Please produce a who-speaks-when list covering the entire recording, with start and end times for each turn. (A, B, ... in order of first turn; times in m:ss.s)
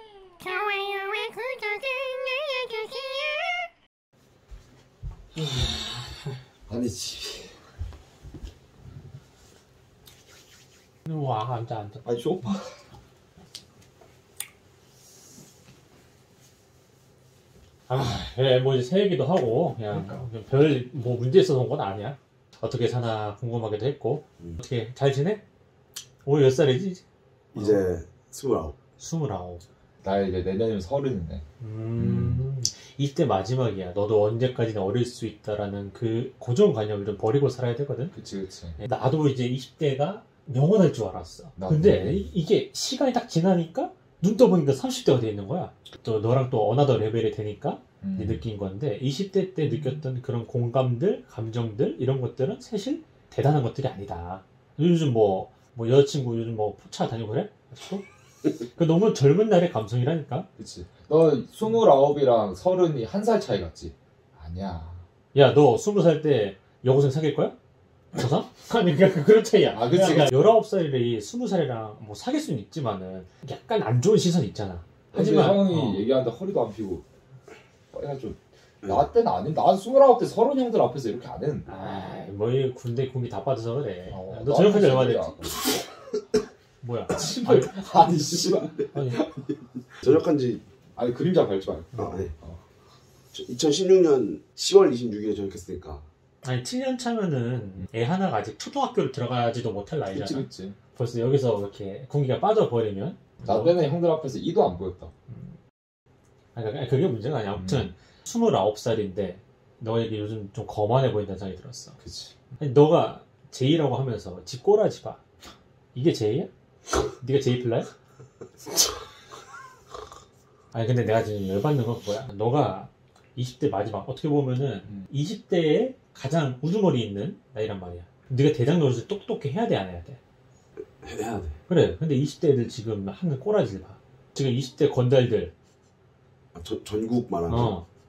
0:00.4-0:03.6 A
0:06.7-0:07.6 B
0:11.1-0:12.0 C
0:12.0-0:12.8 B
0:17.9-0:25.4 C
0:19.9-0:20.2 B
0:26.2-0:27.0 C
0:27.5-0:28.8 D
0:27.6-0:27.9 C
0:29.0-0:29.6 C
0:30.0-0:31.4 B
0:31.6-0:38.2 C
0:32.0-0:32.4 B
0:38.1-0:38.8 B
0:38.8-0:58.0 C
0:41.6-0:42.2 B
0:48.0-0:48.4 B
0:58.7-1:00.5 C
1:00.6-1:05.0 B
1:05.3-1:07.6 C
1:08.1-1:16.1 C
1:09.7-1:10.4 B
1:15.1-1:17.0 B
1:17.9-1:21.7 B
1:21.7-1:25.4 C
1:24.1-1:25.7 B
1:26.8-1:27.9 C
1:27.1-1:29.3 B
1:28.9-1:29.3 C
1:30.0-1:30.6 D
1:31.0-1:32.6 B
1:32.0-1:32.3 D
1:33.3-1:36.0 D
1:36.4-1:43.8 C
1:40.1-1:40.8 B
1:43.4-1:45.1 B
1:45.3-1:45.6 C
1:46.5-1:52.0 C
1:47.5-1:47.9 B
1:52.0-1:52.4 B
1:52.6-1:55.2 C
1:56.0-1:56.5 C
1:57.2-1:57.9 C
2:00.7-2:10.2 C
2:04.8-2:05.1 B
2:11.0-2:11.6 D
2:11.7-2:15.5 C
2:16.6-2:17.8 D
2:17.5-2:17.8 C